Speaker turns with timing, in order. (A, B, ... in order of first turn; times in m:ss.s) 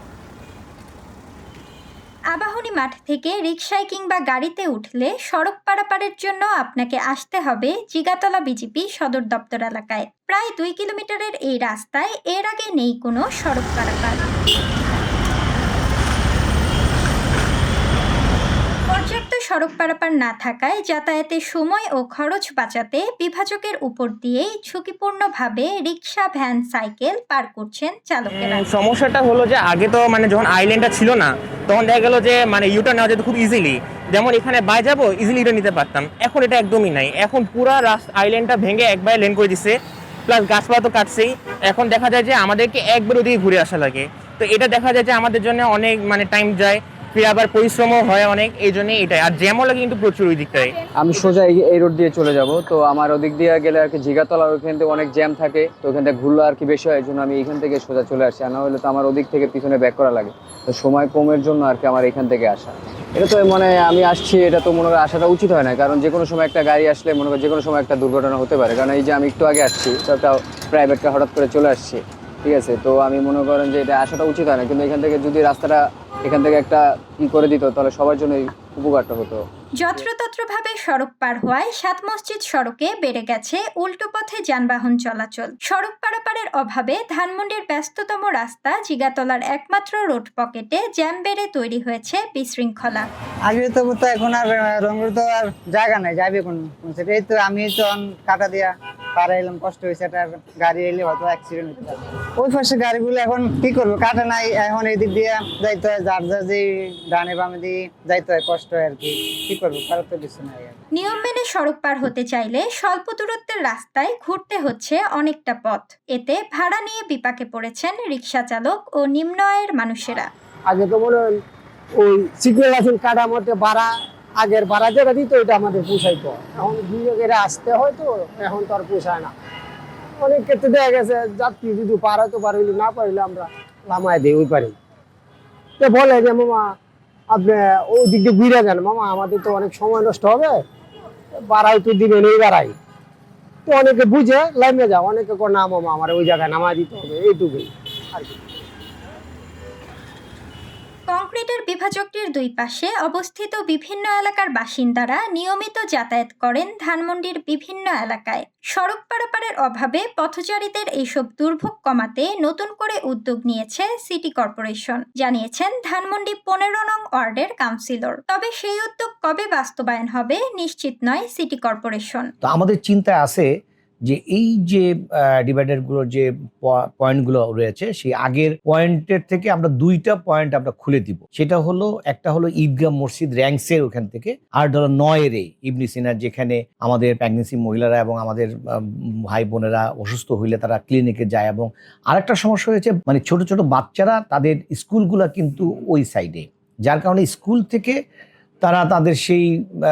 0:02.3-0:14.2 A
0:18.9-0:28.6 A
0:28.3-0:39.8 B
0:40.3-0:50.7 B
0:51.0-1:19.4 C
1:19.8-1:33.1 A
1:33.5-1:50.8 D
1:50.9-2:00.3 A
2:00.7-2:01.3 E
2:02.0-2:03.9 E
2:04.4-2:09.3 E
2:10.2-2:14.7 E
2:15.8-2:16.7 E
2:17.3-2:20.6 E
2:21.3-2:22.7 E
2:23.6-2:28.4 E
2:31.1-2:52.3 A
2:52.4-2:53.5 F
2:54.1-3:18.0 F
3:18.6-3:19.5 F